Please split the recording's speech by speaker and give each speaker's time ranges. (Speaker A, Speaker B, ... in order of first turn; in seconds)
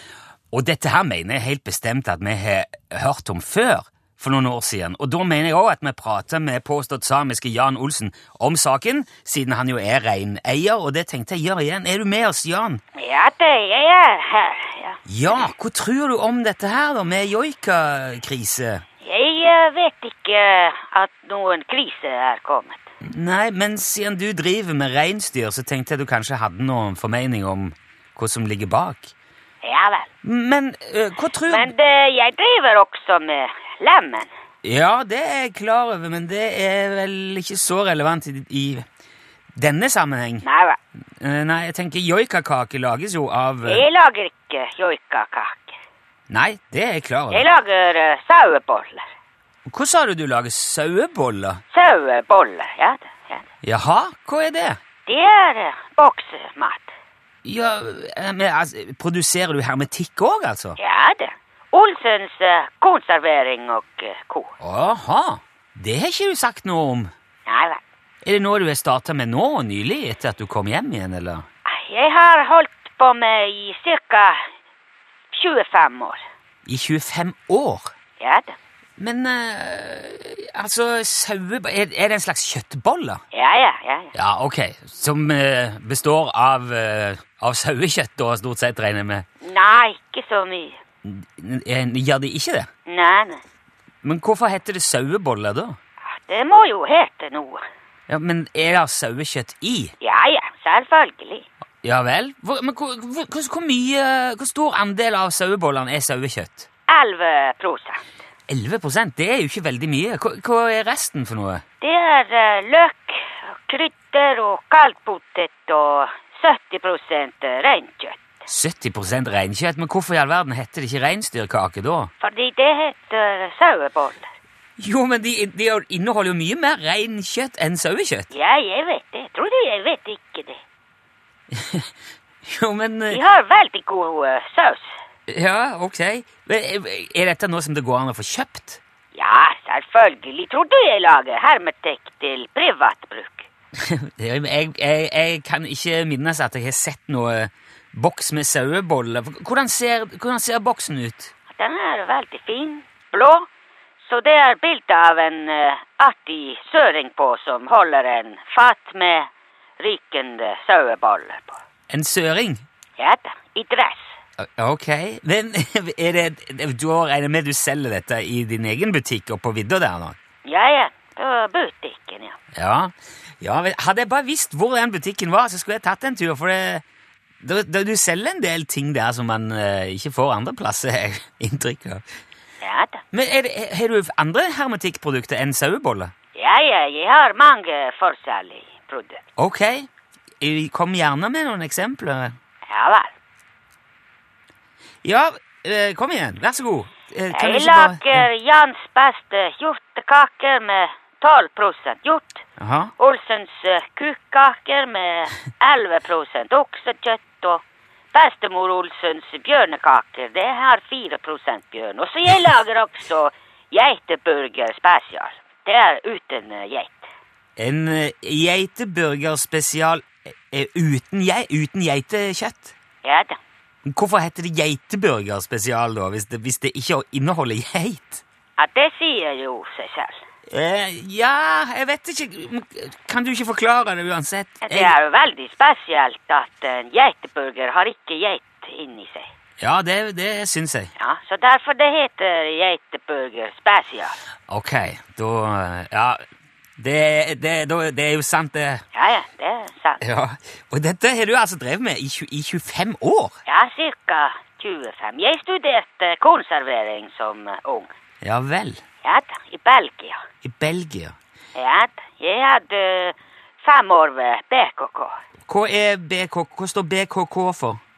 Speaker A: 0.5-12.8, 15.1-18.8, 23.0-29.1, 30.2-31.7, 34.6-38.8, 39.5-40.4, 41.2-43.8, 46.3-47.5, 49.7-51.6, 53.6-54.8, 57.4-60.8, 64.6-67.1, 68.2-71.5, 76.7-77.9, 79.0-83.2, 84.1-89.2, 91.0-92.7, 94.0-95.8, 98.1-99.9, 101.8-106.7, 108.5-111.6, 118.5-122.1, 124.8-128.3, 131.5-131.9, 132.4-133.2, 135.3-138.8, 143.8-151.3, 161.9-162.6, 164.4-170.2, 172.5-176.8, 177.4-182.0, 183.1-186.1, 189.4-189.9, 190.4-192.3, 195.0-198.3, 202.6-202.9, 217.6-222.7, 223.8-228.2, 230.5-234.9, 239.6-240.9, 244.5-246.2, 246.8-248.8, 250.0-253.3, 258.2-258.8, 260.4-261.1, 265.5-267.8
Speaker B: 12.9-15.5, 19.0-22.9, 29.6-30.1, 31.5-34.3, 40.4-40.8, 43.6-45.8, 47.3-49.0, 51.7-53.5, 55.0-56.9, 60.8-64.5, 67.5-67.8, 71.6-74.4, 75.3-76.2, 78.2-78.5, 83.3-84.1, 89.4-90.8, 92.8-93.4, 96.0-97.6, 100.0-101.5, 106.9-108.0, 111.8-118.2, 122.2-124.3, 128.3-130.6, 133.1-135.0, 139.1-143.5, 151.5-153.5, 154.0-159.3, 159.8-161.6, 163.0-164.1, 170.4-172.4, 182.6-183.0, 186.3-189.2, 192.7-193.1, 197.3-202.4, 203.0-217.1, 223.0-223.4, 228.6-230.2, 234.6-239.3, 241.0-244.2, 248.9-250.0, 253.4-257.9, 259.0-260.2, 261.5-265.1